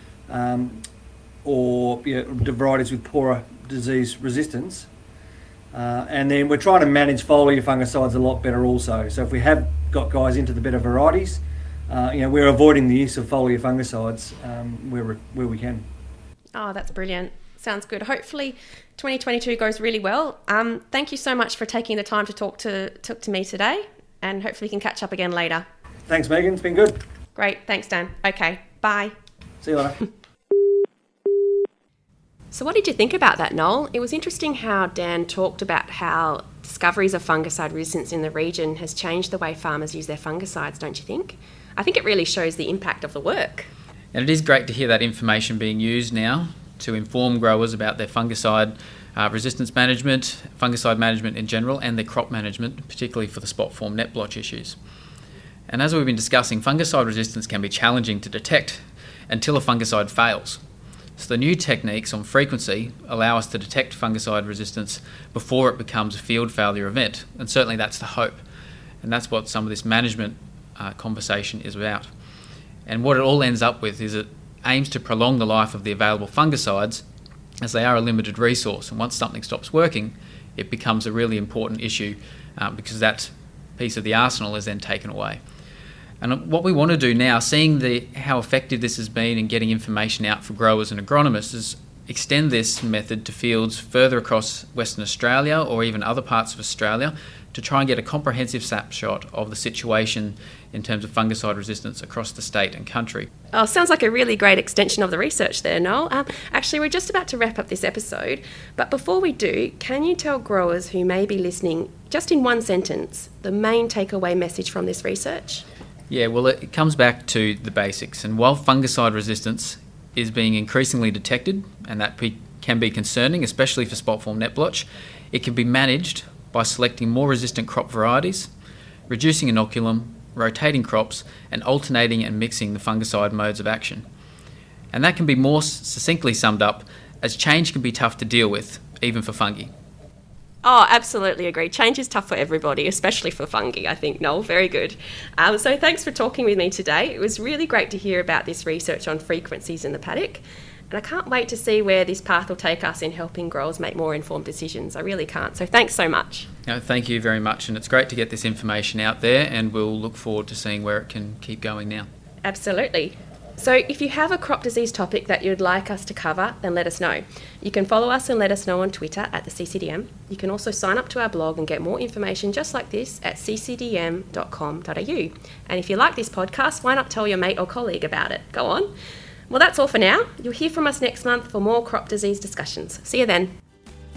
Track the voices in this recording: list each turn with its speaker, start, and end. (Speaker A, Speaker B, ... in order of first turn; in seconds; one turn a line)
Speaker A: 0.3-0.8
Speaker A: 1.4-4.9
Speaker A: 5.7-15.8
Speaker B: 16.5-25.6
Speaker A: 26.1-27.0
Speaker B: 27.4-29.1
Speaker A: 29.6-30.0
Speaker B: 32.5-43.7
Speaker C: 44.1-54.8
Speaker C: 55.7-60.6
Speaker C: 61.2-68.4
Speaker C: 69.0-72.1
Speaker C: 72.8-77.0
Speaker C: 77.6-85.4
Speaker C: 86.2-103.3
Speaker B: 103.5-115.6
Speaker C: 116.1-128.5
Speaker C: 129.1-134.1
Speaker C: 134.9-139.7
Speaker B: 140.6-156.5
Speaker C: 156.7-162.1
Speaker B: 162.4-178.9
Speaker B: 179.5-183.5